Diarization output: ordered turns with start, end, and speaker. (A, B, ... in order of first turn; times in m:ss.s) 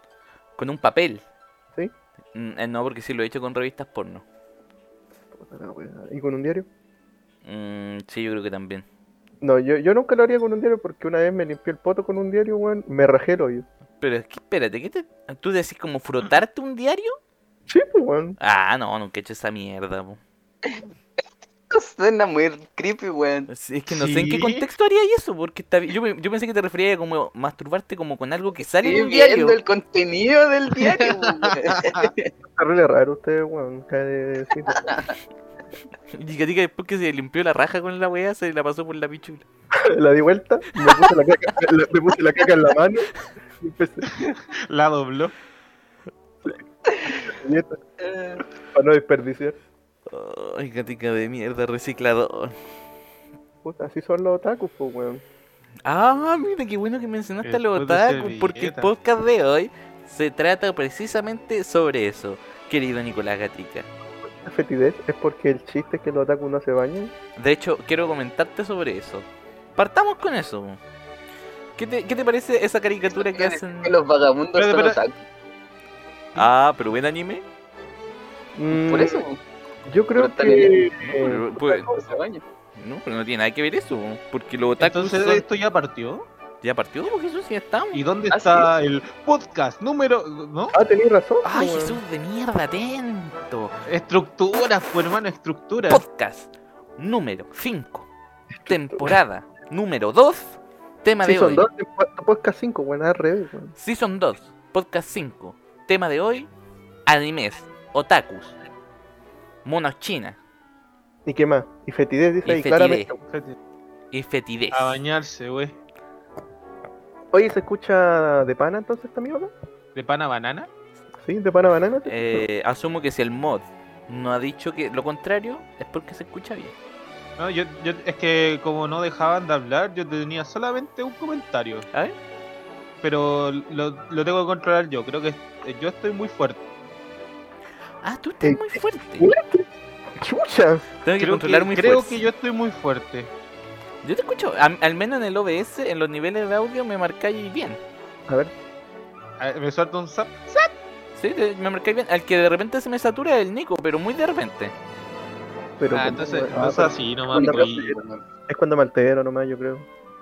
0:00.6-0:01.2 A
0:02.3-0:04.2 A
0:05.3-0:06.7 B
0:07.4-0:08.8 A
0:09.4-0:13.6 B
0:14.0-0:17.2 A
0:17.7-0:18.4 B
0:18.4-0:20.2 A
0:21.7-0:23.5 C
0:23.5-0:29.6 A
0:23.9-0:24.6 D
0:28.8-0:32.3 C
0:30.9-0:31.5 D
0:32.5-0:34.9 B
0:34.7-0:35.1 C
0:36.1-0:39.4 A
0:39.8-0:44.1 B
0:44.1-0:45.3 D
0:46.9-0:47.3 C
0:47.3-0:47.8 B
0:48.0-0:48.4 C
0:48.7-0:49.6 B
0:50.1-0:52.5 A
0:53.6-0:55.2 B
0:55.8-1:03.9 A
0:57.4-0:58.9 D
1:04.4-1:07.1 B
1:07.4-1:10.8 A
1:11.8-1:13.9 A
1:13.1-1:15.1 C
1:14.5-1:15.0 D
1:16.4-1:17.4 A
1:18.6-1:19.2 B
1:18.7-1:19.4 C
1:19.9-1:22.1 B
1:20.2-1:20.7 C
1:21.0-1:21.9 A
1:21.9-1:22.4 C
1:22.8-1:25.4 A
1:24.8-1:26.3 D
1:26.6-1:28.0 A
1:27.9-1:30.7 D
1:28.3-1:28.7 C
1:30.7-1:32.0 B
1:31.4-1:33.7 A
1:33.9-1:36.0 D
1:35.9-1:38.1 A
1:38.6-1:39.1 B
1:38.6-1:41.6 A
1:41.2-1:43.7 B
1:43.8-1:46.5 A
1:47.0-1:48.5 A
1:49.6-1:50.4 A
1:51.2-1:53.2 B
1:52.4-1:53.1 A
1:53.3-1:53.6 D
1:54.1-1:55.0 A
1:54.7-1:55.8 D
1:57.3-1:59.5 B
1:59.9-2:00.7 D
2:01.2-2:02.4 B
2:02.0-2:06.7 A
2:07.4-2:11.9 D
2:13.0-2:16.6 D
2:18.0-2:19.3 A
2:18.4-2:19.7 B
2:20.2-2:20.8 B
2:21.0-2:22.2 A
2:21.2-2:23.3 D
2:24.0-2:27.8 A
2:29.4-2:30.7 D
2:31.2-2:34.7 A
2:35.8-2:39.8 B
2:35.9-2:38.2 D